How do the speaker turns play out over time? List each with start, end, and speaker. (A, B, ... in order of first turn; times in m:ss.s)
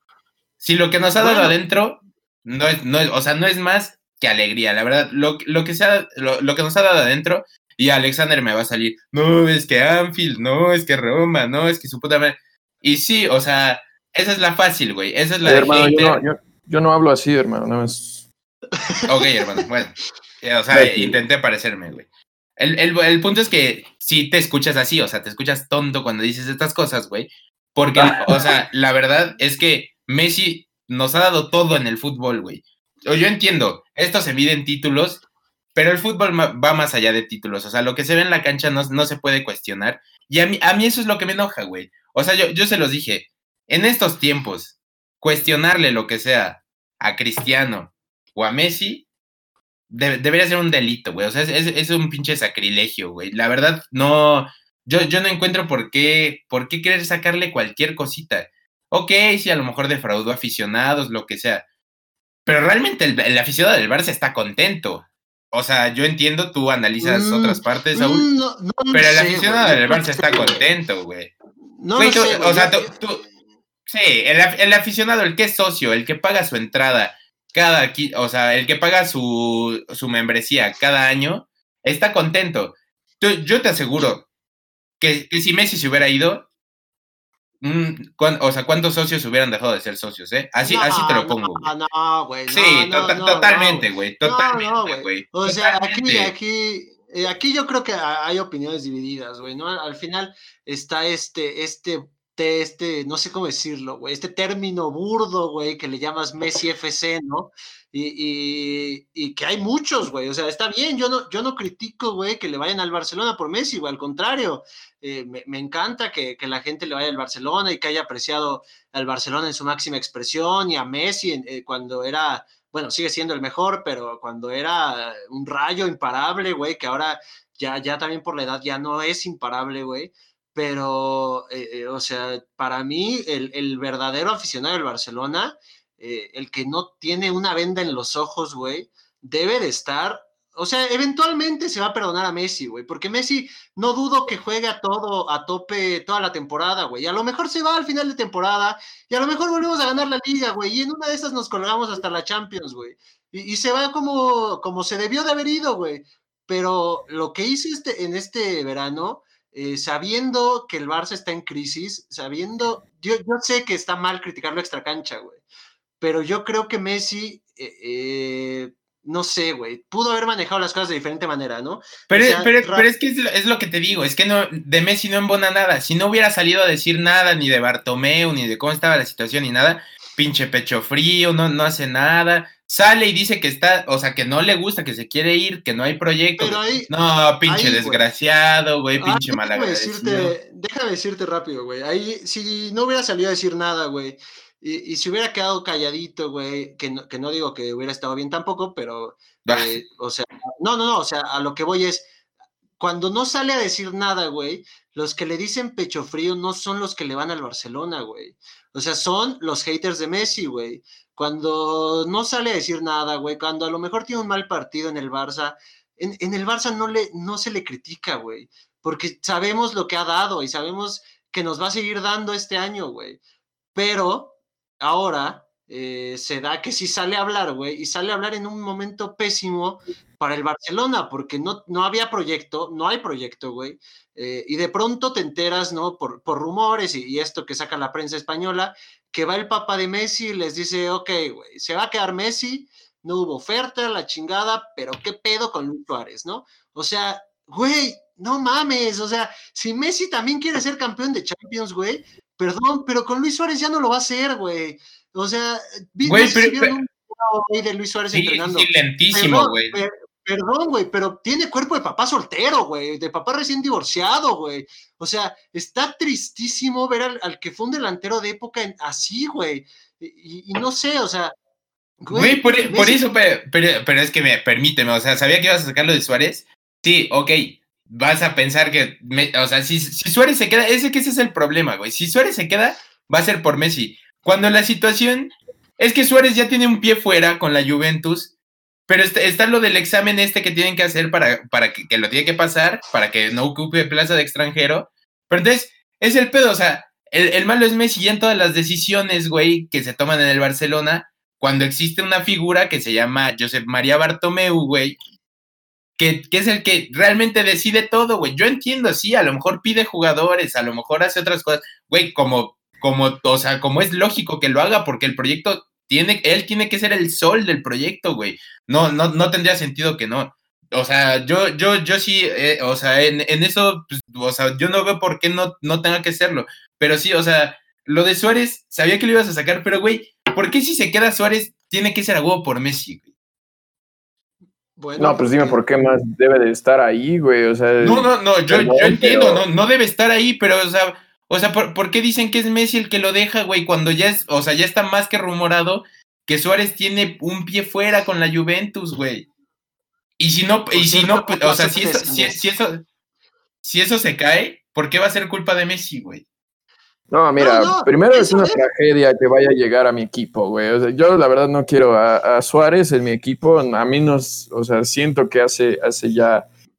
0:00.6-0:16.2 A
0:01.2-0:01.6 B
0:15.4-0:18.3 C
0:19.1-0:22.1 A
0:20.7-0:21.2 C
0:22.6-0:35.2 A
0:35.8-0:49.1 A
0:49.9-1:01.6 A
1:02.5-1:08.3 A
1:07.0-1:10.6 B
1:08.9-1:11.3 A
1:11.8-1:12.9 B
1:12.0-1:13.2 A
1:13.9-1:24.3 A
1:25.0-1:26.5 A
1:27.6-1:31.7 A
1:30.6-2:45.4 B
1:32.5-1:36.3 A
2:46.0-2:52.9 B
2:52.1-3:10.3 A
3:06.4-3:06.9 B
3:07.4-3:08.0 B
3:09.0-3:22.1 B
3:19.5-3:19.8 A
3:22.8-3:43.2 B
3:43.7-4:31.3 B
4:16.0-4:16.8 A
4:18.1-4:19.8 A
4:32.0-4:33.0 B
4:32.1-4:48.3 A
4:48.9-5:05.0 A
5:06.0-5:33.0 A
5:34.8-5:35.6 B
5:35.0-5:39.5 C
5:37.8-5:49.3 A
5:50.2-5:52.8 A
5:50.7-5:52.5 B
5:53.6-5:56.2 A
5:57.1-6:06.5 C
5:57.4-5:58.6 B